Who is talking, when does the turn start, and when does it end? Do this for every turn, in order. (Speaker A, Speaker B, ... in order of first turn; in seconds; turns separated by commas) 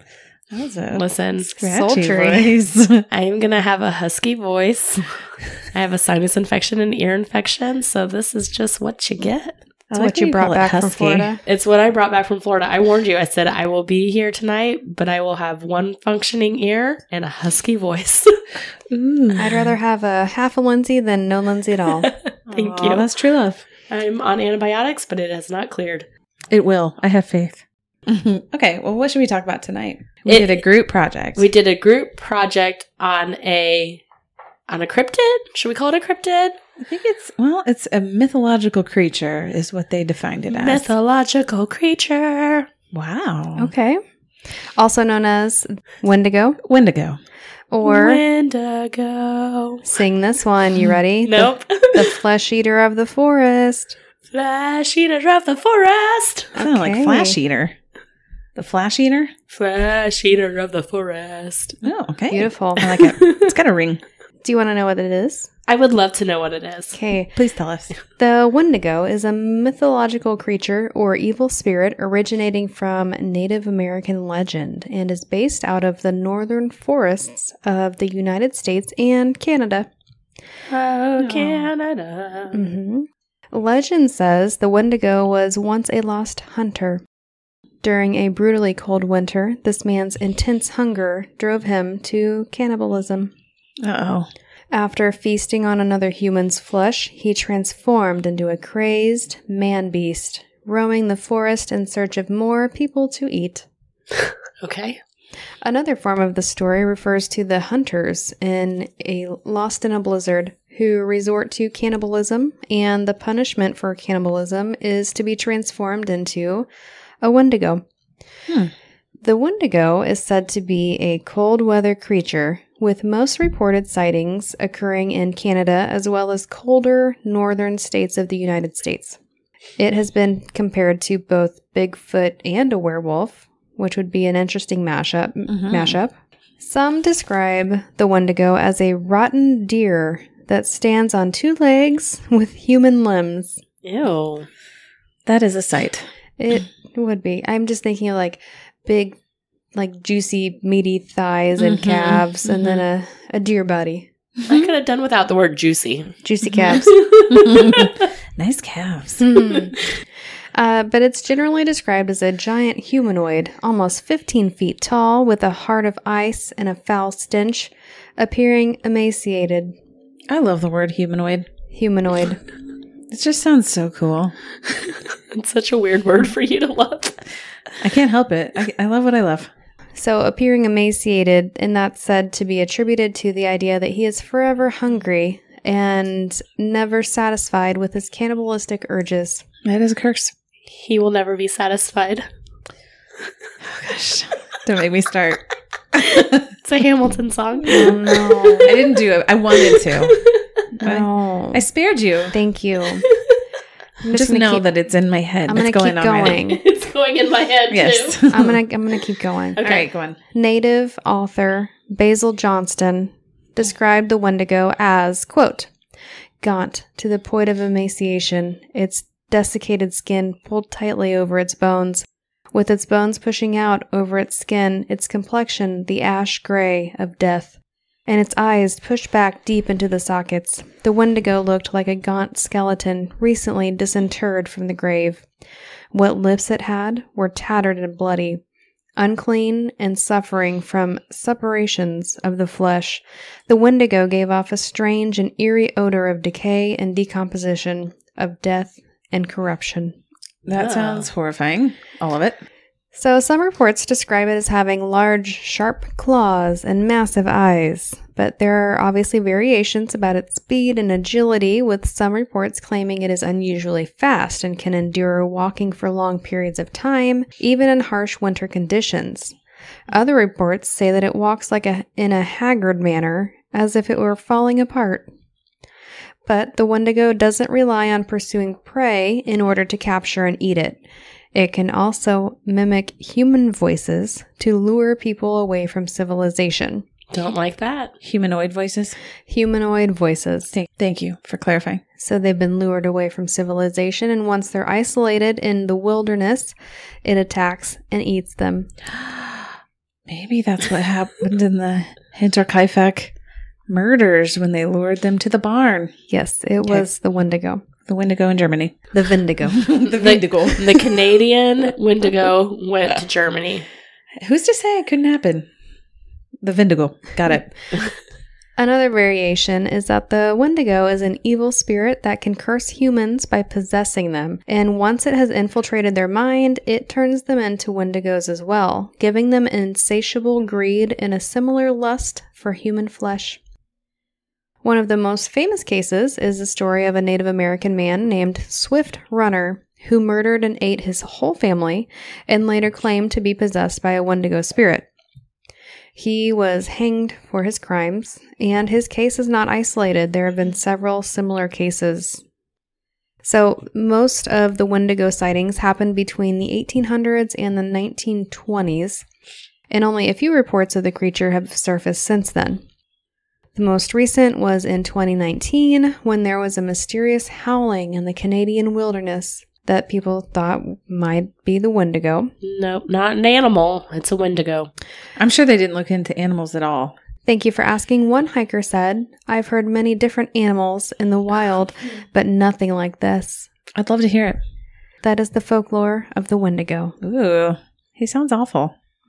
Speaker A: 0.5-3.0, Speaker B: 0.9-1.5, Speaker C: 1.6-2.5, Speaker B: 3.1-9.6, Speaker A: 9.9-11.3, Speaker C: 9.9-11.4, Speaker B: 11.4-18.3, Speaker A: 18.9-19.7, Speaker C: 19.4-22.1, Speaker B: 22.0-23.1, Speaker A: 22.5-23.6, Speaker B: 23.9-26.1, Speaker A: 26.5-31.5, Speaker B: 30.3-30.6, Speaker B: 31.4-34.0, Speaker B: 34.7-36.6, Speaker A: 36.8-40.9, Speaker B: 40.5-42.7, Speaker A: 42.9-43.7, Speaker C: 43.6-46.6, Speaker A: 46.6-47.2, Speaker C: 47.7-48.2, Speaker B: 47.8-49.8, Speaker C: 49.8-54.0, Speaker B: 51.2-52.2, Speaker B: 54.3-56.5, Speaker C: 56.5-57.4, Speaker A: 56.6-57.8, Speaker A: 58.5-59.3, Speaker B: 59.5-61.8, Speaker A: 61.8-64.0, Speaker C: 62.3-63.1, Speaker B: 63.0-63.5, Speaker C: 64.4-65.5, Speaker B: 65.7-67.0, Speaker C: 66.9-67.3, Speaker A: 67.3-67.9, Speaker C: 68.2-79.9, Speaker B: 80.7-82.6, Speaker A: 81.2-81.7, Speaker C: 82.5-87.0, Speaker C: 87.8-93.3, Speaker A: 93.8-94.3, Speaker C: 94.7-103.7, Speaker B: 104.6-105.0, Speaker C: 105.6-116.7, Speaker C: 117.2-117.8, Speaker A: 118.5-118.7, Speaker C: 119.2-129.2, Speaker C: 129.8-143.6, Speaker A: 135.5-135.9, Speaker B: 143.8-144.5, Speaker A: 145.2-146.1, Speaker C: 146.4-149.2, Speaker C: 149.7-154.1, Speaker A: 151.6-152.7, Speaker A: 154.4-154.7, Speaker B: 154.5-158.0, Speaker C: 156.2-156.9, Speaker A: 156.5-159.2, Speaker C: 159.2-159.7, Speaker C: 160.5-169.8, Speaker A: 170.3-171.5, Speaker C: 171.7-172.4, Speaker A: 173.1-174.3, Speaker B: 174.7-177.2, Speaker A: 177.8-179.5, Speaker C: 179.9-189.4, Speaker A: 189.6-190.3, Speaker B: 190.7-192.3, Speaker A: 193.6-196.5, Speaker B: 196.6-198.8, Speaker C: 197.7-198.7, Speaker A: 198.6-200.2, Speaker B: 199.6-200.4, Speaker A: 200.8-202.3, Speaker C: 200.8-201.6, Speaker C: 202.3-203.1, Speaker B: 203.1-203.3, Speaker C: 204.0-204.7, Speaker A: 204.1-206.4, Speaker C: 205.5-206.6, Speaker B: 206.2-208.2, Speaker A: 207.7-208.6, Speaker C: 208.3-209.6, Speaker B: 209.6-209.9, Speaker A: 209.6-210.2, Speaker C: 210.3-215.7, Speaker C: 216.4-235.3, Speaker C: 235.9-238.4, Speaker C: 239.0-250.0, Speaker A: 250.4-252.4, Speaker B: 250.5-251.1, Speaker C: 252.9-269.4, Speaker C: 269.9-275.1, Speaker C: 276.2-280.8, Speaker C: 281.3-286.8, Speaker B: 287.1-287.9, Speaker A: 288.0-288.9, Speaker C: 289.3-290.5, Speaker A: 290.5-291.8, Speaker C: 292.0-298.7, Speaker A: 298.9-299.5, Speaker A: 300.1-303.1, Speaker A: 303.7-305.9, Speaker C: 306.1-307.6, Speaker A: 307.9-308.9, Speaker C: 308.9-309.7, Speaker A: 309.5-310.9, Speaker B: 309.9-313.6, Speaker A: 314.2-315.5, Speaker A: 316.4-317.5, Speaker C: 318.6-333.4, Speaker C: 334.6-344.9, Speaker C: 345.9-352.2, Speaker C: 353.2-359.1, Speaker C: 359.7-362.6, Speaker C: 363.6-372.3, Speaker B: 372.4-374.7, Speaker A: 375.2-376.9, Speaker C: 377.2-383.5, Speaker A: 383.7-384.4, Speaker C: 385.0-387.0, Speaker A: 387.0-388.7